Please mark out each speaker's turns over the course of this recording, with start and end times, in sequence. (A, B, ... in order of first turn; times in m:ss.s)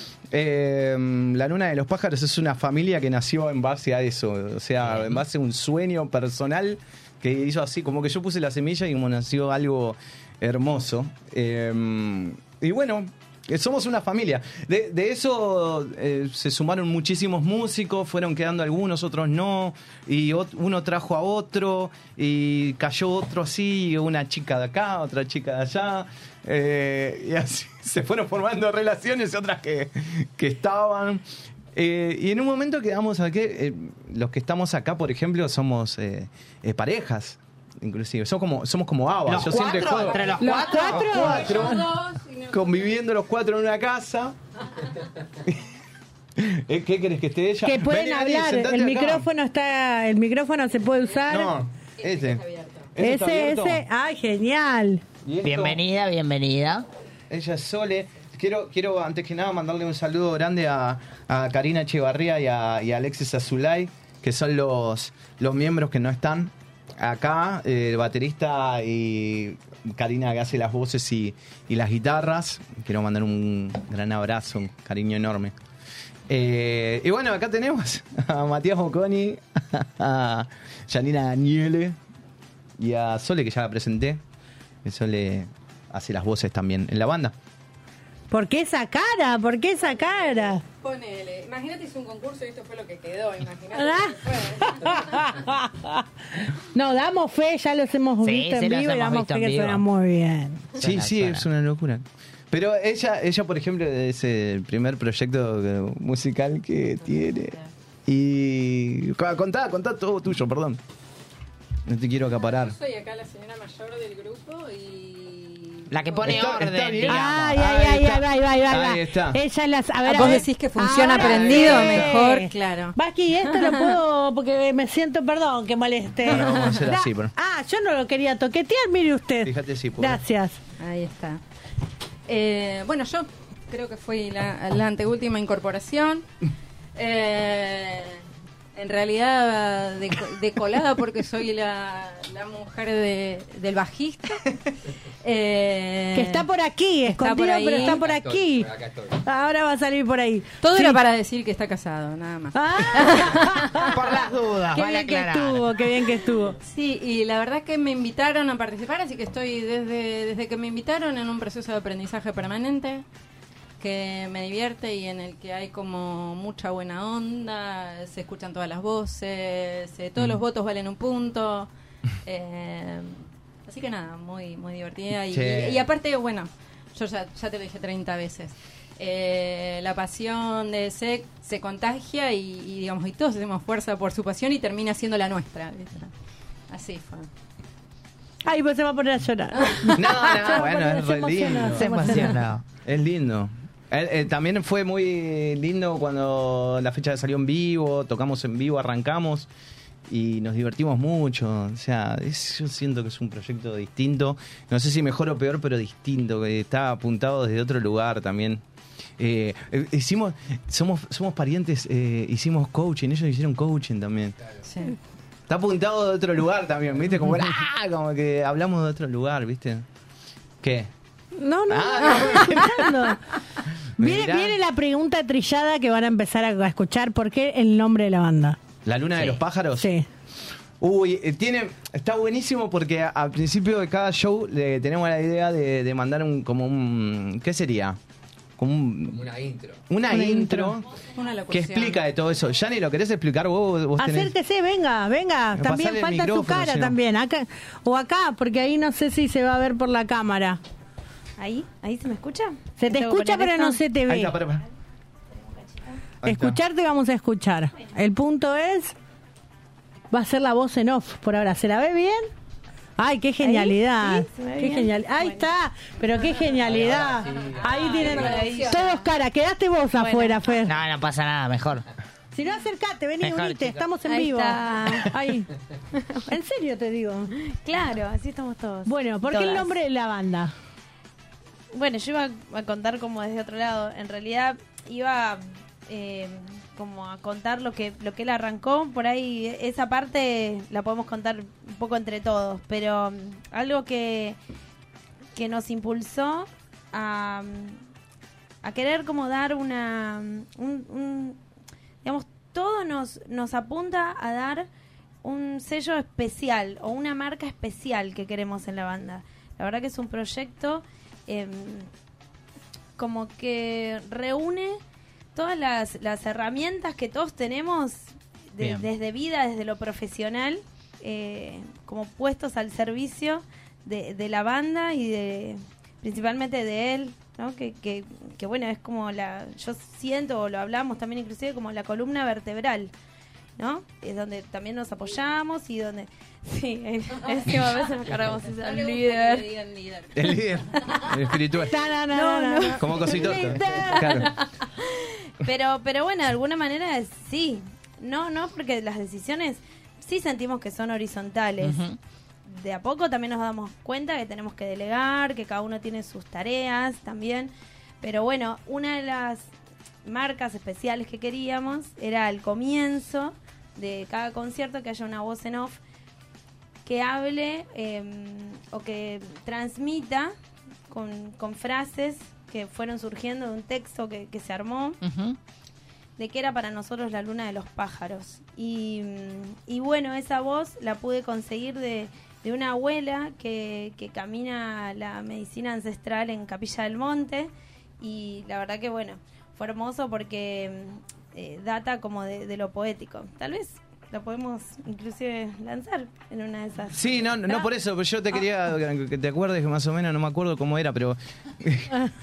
0:00.3-0:41.8 A
0:04.8-0:05.2 B
0:39.2-0:41.5 B
0:40.4-0:41.8 C
0:41.5-0:43.0 D
0:42.5-0:44.4 A
0:46.4-0:49.2 A
0:47.6-0:51.5 C
0:51.3-0:53.8 A
0:52.0-0:52.9 D
0:53.0-0:55.0 C
0:55.2-0:55.8 A
0:55.4-0:56.8 B
0:57.3-1:15.5 A
1:16.3-1:22.0 A
1:22.8-1:24.2 A
1:24.8-1:27.3 A
1:28.3-1:30.6 C
1:30.0-1:35.2 D
1:33.8-1:36.0 C
1:36.7-1:40.6 C
1:38.2-1:39.8 B
1:40.8-1:47.6 A
1:40.8-1:41.4 B
1:48.1-1:50.8 A
1:51.9-1:52.7 A
1:52.4-1:56.4 D
1:55.9-1:57.6 B
1:56.2-1:59.4 A
1:57.0-2:10.6 C
2:00.0-2:03.9 D
2:01.1-2:02.1 A
2:06.3-2:07.3 A
2:06.3-2:06.8 D
2:09.4-2:10.2 A
2:10.8-2:11.4 D
2:12.3-2:16.3 D
2:16.9-2:18.2 D
2:18.7-2:24.4 D
2:25.2-2:26.5 D
2:26.1-2:28.7 C
2:27.1-2:28.1 D
2:27.8-2:29.2 E
2:29.2-2:31.0 C
2:30.6-2:33.9 D
2:32.5-2:33.9 C
2:33.9-2:35.7 B
2:34.7-2:36.6 C
2:36.6-2:43.0 D
2:43.8-2:51.7 D
2:52.2-3:06.1 D
2:55.3-2:55.9 A
3:06.7-3:07.3 D
3:08.4-3:12.4 C
3:09.6-3:09.9 D
3:09.9-3:12.3 A
3:11.7-3:12.6 B
3:12.8-3:19.5 A
3:20.1-3:28.6 A
3:29.2-3:34.4 A
3:34.4-3:34.7 E
3:34.6-3:35.0 D
3:35.5-3:39.8 A
3:40.6-3:40.9 A
3:41.4-3:43.2 C
3:41.7-3:42.7 A
3:44.0-3:44.6 A
3:44.0-3:48.6 C
3:48.8-3:49.9 A
3:49.8-3:50.1 C
3:50.8-3:58.0 A
3:58.6-3:59.2 A
3:59.1-3:59.8 E
3:59.9-4:00.8 A
4:00.1-4:00.8 C
4:01.1-4:02.0 D
4:01.5-4:04.3 A
4:04.0-4:10.6 C
4:05.5-4:07.0 A
4:11.4-4:13.8 F
4:12.8-4:14.4 C
4:14.0-4:14.6 A
4:15.4-4:16.0 F
4:16.2-4:16.6 A
4:16.2-4:18.9 C
4:20.1-4:22.3 C
4:23.0-4:30.7 C
4:23.4-4:25.5 F
4:26.5-4:28.4 E
4:27.8-4:29.1 F
4:28.0-4:28.2 D
4:29.9-4:30.4 F
4:30.7-4:31.8 B
4:32.3-4:35.5 C
4:33.2-4:33.8 B
4:34.0-4:35.1 F
4:36.3-4:37.3 C
4:37.6-4:39.7 F
4:38.8-4:40.5 C
4:41.7-4:54.4 F
4:55.4-4:57.8 F
4:58.6-5:01.4 F
5:02.0-5:04.7 F
5:05.2-5:11.9 F
5:13.0-5:14.8 F
5:15.3-5:32.9 F
5:18.6-5:18.9 B
5:33.6-5:39.5 F
5:37.2-5:40.1 D
5:40.1-5:41.7 A
5:40.8-5:41.1 F
5:41.7-5:44.2 C
5:42.1-5:51.9 F
5:42.8-5:44.3 A
5:51.6-5:52.0 B
5:52.5-5:59.5 F
6:00.0-6:05.8 F
6:06.8-6:10.3 F
6:10.9-6:15.0 F
6:15.0-6:15.4 B
6:16.2-6:37.7 F
6:36.9-6:41.9 A